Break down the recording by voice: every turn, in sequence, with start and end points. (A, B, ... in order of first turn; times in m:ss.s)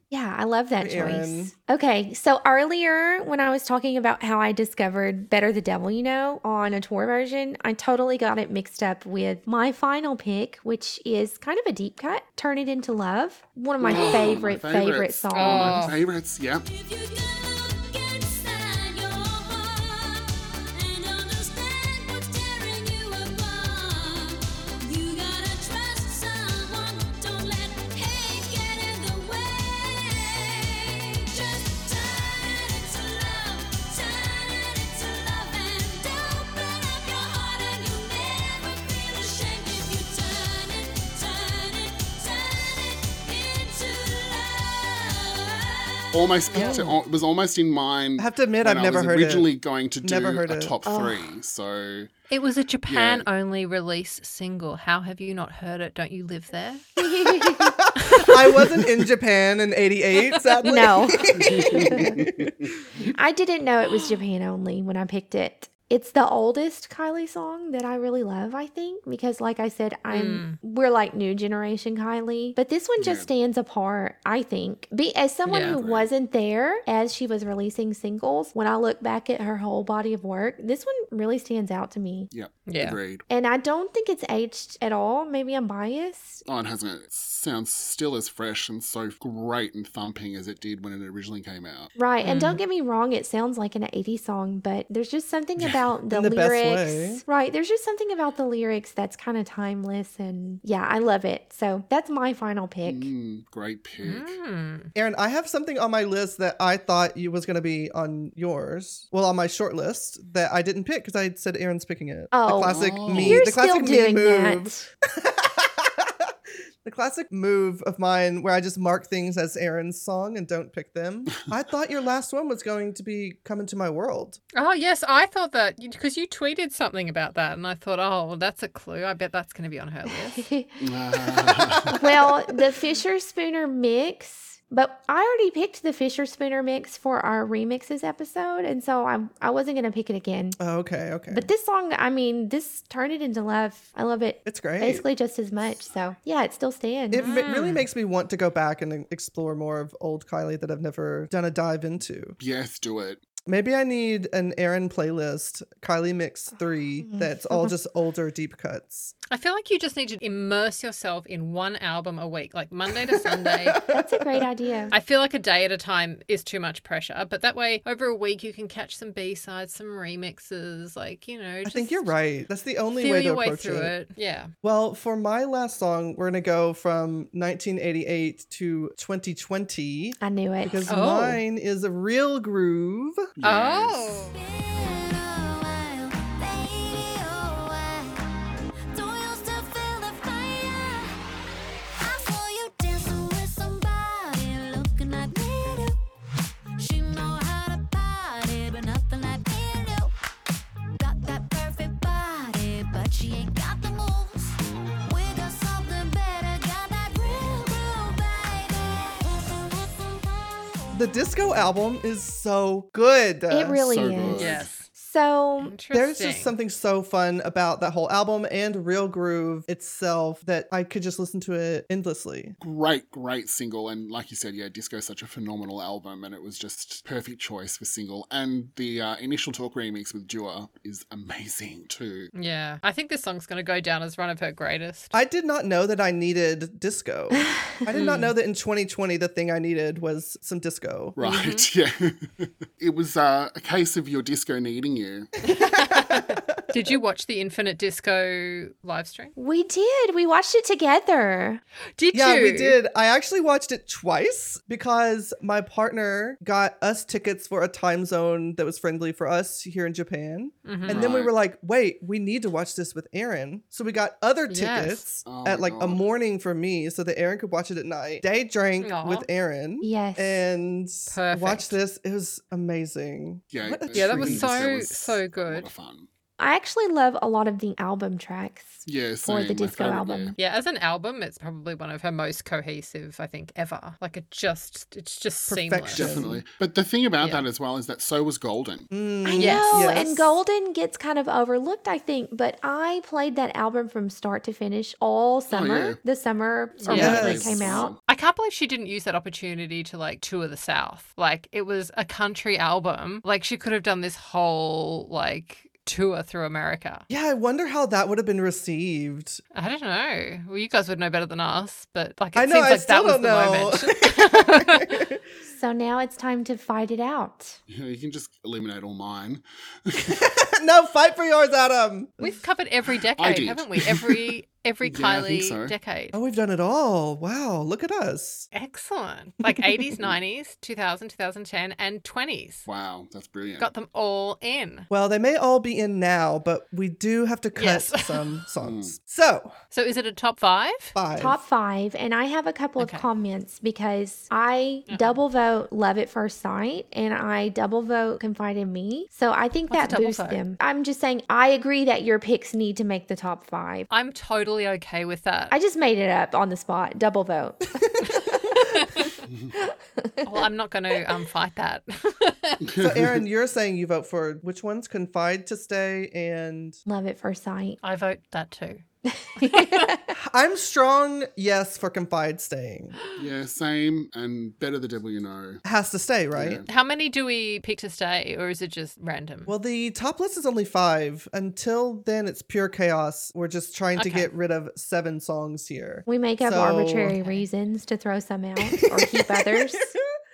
0:00.1-0:15.9 A
0:00.8-0:01.5 B
0:13.8-0:16.6 C
0:13.9-0:14.2 D
0:15.3-0:16.0 D
0:16.7-0:46.2 E
0:46.1-0:52.1 C
0:46.5-0:46.9 D
0:46.5-0:47.0 B
0:48.2-0:49.5 B
0:50.0-0:50.7 B
0:50.8-0:51.3 A
0:52.3-0:56.9 D
0:52.9-0:53.3 C
0:57.0-0:57.8 A
0:57.3-1:02.6 B
0:58.0-0:58.3 D
1:00.6-1:02.2 A
1:01.4-1:02.5 C
1:03.1-1:22.3 A
1:10.1-1:10.6 D
1:13.0-1:13.3 C
1:15.5-1:15.8 D
1:15.5-1:16.1 C
1:22.3-1:23.2 C
1:22.7-1:23.0 D
1:23.3-1:26.4 A
1:26.4-1:31.9 C
1:32.0-1:43.1 A
1:32.2-1:32.6 D
1:36.1-1:37.2 B
1:42.8-1:44.4 C
1:44.0-1:44.9 D
1:45.0-2:04.4 B
1:52.3-1:54.9 A
1:52.7-1:53.5 C
2:04.6-2:10.5 D
2:10.3-2:10.8 A
2:10.8-2:12.0 C
2:11.9-2:20.6 A
2:20.6-2:21.5 B
2:21.3-2:27.3 A
2:24.4-2:25.1 B
2:27.1-2:32.4 B
2:27.2-2:27.9 D
2:32.4-2:33.2 C
2:33.5-2:39.1 B
2:37.0-2:37.8 A
2:39.3-2:43.8 D
2:43.3-2:44.5 B
2:43.9-2:45.0 A
2:44.9-2:52.1 D
2:51.6-2:53.9 B
2:53.0-2:54.5 D
2:54.6-3:03.3 B
3:00.2-3:00.9 A
3:00.9-3:01.4 D
3:03.4-3:04.1 C
3:03.4-3:04.4 D
3:04.3-3:08.2 E
3:08.9-3:11.2 E
3:12.0-3:16.0 E
3:16.8-3:20.1 E
3:21.0-3:31.0 E
3:30.9-3:34.0 B
3:33.5-3:35.7 A
3:33.9-3:34.7 C
3:34.4-3:34.8 D
3:35.6-3:36.6 D
3:35.9-3:42.6 B
3:42.6-3:52.3 C
3:52.3-3:55.1 D
3:55.1-4:01.2 B
3:57.9-3:58.3 D
4:01.2-4:05.3 C
4:01.2-4:01.7 D
4:05.4-4:09.3 D
4:05.5-4:06.6 B
4:09.4-4:11.6 A
4:12.0-4:12.8 D
4:12.1-4:34.6 B
4:20.6-4:21.1 D
4:20.9-4:21.3 C
4:24.5-4:25.0 D
4:25.2-4:26.1 C
4:28.8-4:29.3 D
4:29.8-4:30.4 A
4:31.1-4:31.8 D
4:33.5-4:36.1 C
4:33.9-4:35.7 D
4:36.4-4:40.4 A
4:38.8-4:40.4 C
4:40.4-4:46.2 D
4:45.5-4:46.4 B
4:45.9-4:48.9 C
4:47.2-4:47.5 D
4:48.9-4:50.4 B
4:49.2-4:58.0 A
4:49.4-4:49.9 D
4:55.5-4:56.0 C
4:56.8-4:57.3 D
4:56.9-4:58.0 C
4:56.9-4:57.8 B
4:58.1-5:07.1 D
5:07.1-5:09.4 B
5:09.5-5:15.0 D
5:12.4-5:15.2 B
5:15.5-5:17.6 A
5:17.7-5:20.2 C
5:20.0-5:22.3 B
5:22.2-5:26.2 D
5:23.2-5:24.2 C
5:24.8-5:25.8 C
5:26.1-5:28.5 B
5:28.5-5:32.7 D
5:32.7-5:33.7 C
5:33.6-5:34.9 D
5:34.9-5:39.5 B
5:37.6-5:38.4 D
5:38.6-5:39.0 C
5:39.7-5:41.0 D
5:40.9-5:41.4 B
5:41.2-5:53.9 A
5:42.8-5:43.1 D
5:44.9-5:45.2 D
5:49.7-5:50.4 D
5:53.9-5:55.6 D
5:55.5-5:58.0 A
5:58.7-5:59.1 D
5:59.6-6:00.5 A
6:00.2-6:02.7 D
6:02.6-6:03.2 C
6:02.8-6:06.8 B
6:06.9-6:07.8 A
6:07.8-6:08.8 D
6:09.1-6:10.1 A
6:09.4-6:09.9 D
6:10.1-6:13.0 B
6:13.2-6:15.6 C
6:15.6-6:16.6 B
6:16.3-6:16.7 C
6:16.7-6:19.5 D
6:19.5-6:27.2 B
6:24.0-6:24.3 D
6:26.1-6:29.9 A
6:27.1-6:27.5 D
6:28.7-6:30.0 B